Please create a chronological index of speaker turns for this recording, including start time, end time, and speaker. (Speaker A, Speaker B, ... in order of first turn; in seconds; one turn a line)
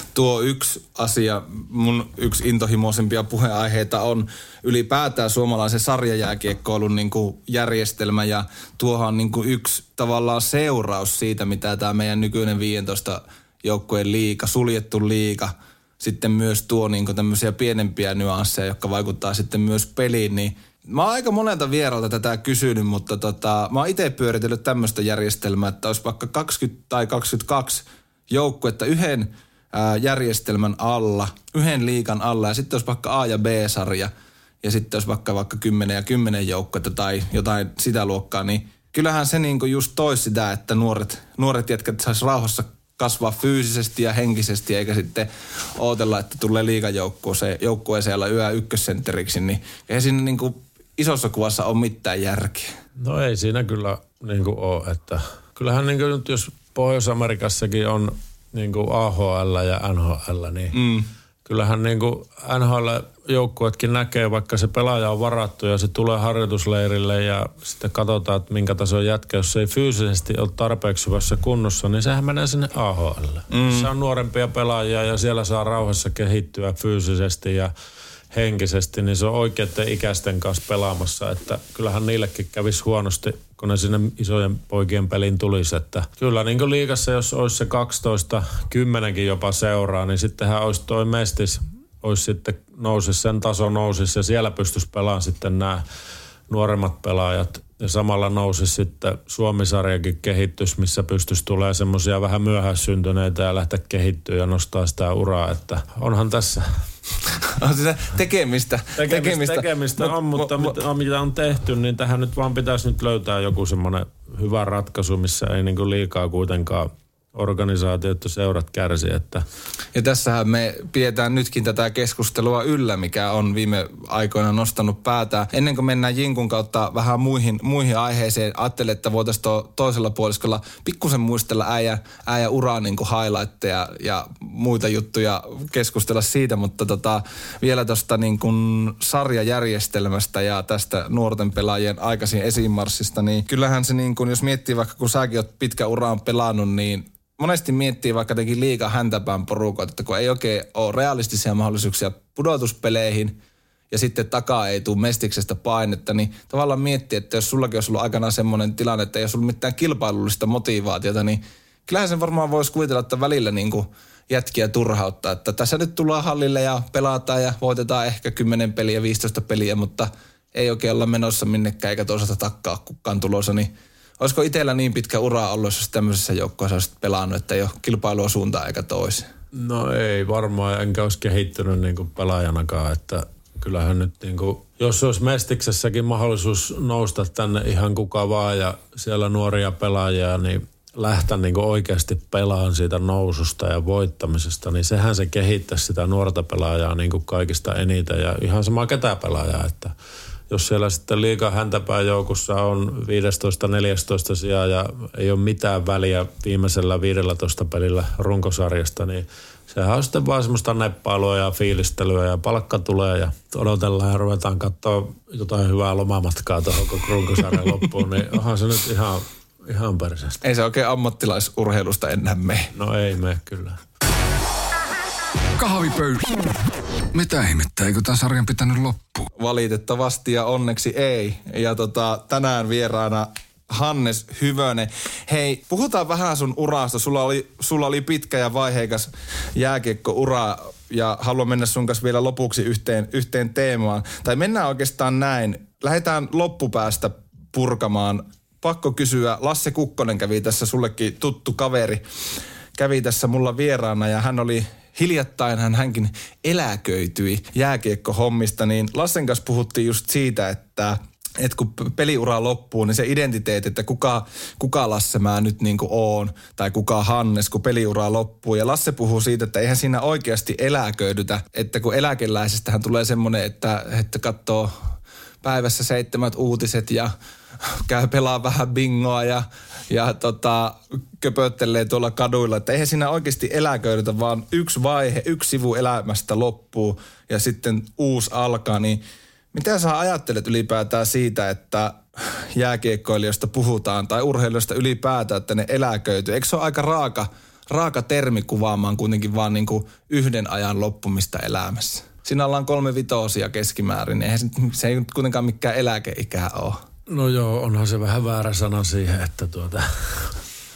Speaker A: 0.1-34.1
Speaker A: 34.6-52.7
Speaker B: 53.0-60.8
Speaker A: 60.8-61.1
Speaker B: 61.5-77.7
Speaker A: 73.5-73.9
Speaker B: 78.3-95.8
Speaker B: 96.5-106.7
Speaker A: 107.4-110.7
Speaker B: 109.0-119.4
Speaker A: 119.9-153.4
Speaker A: 153.9-179.3
Speaker B: 179.5-199.9
Speaker B: 200.5-220.4
Speaker A: 220.4-222.7
Speaker B: 222.7-223.8
Speaker C: 225.6-229.1
Speaker A: 229.4-252.0
Speaker A: 252.8-274.7
Speaker A: 275.4-277.1
Speaker A: 277.6-289.0
Speaker A: 289.5-306.8
Speaker B: 307.1-310.3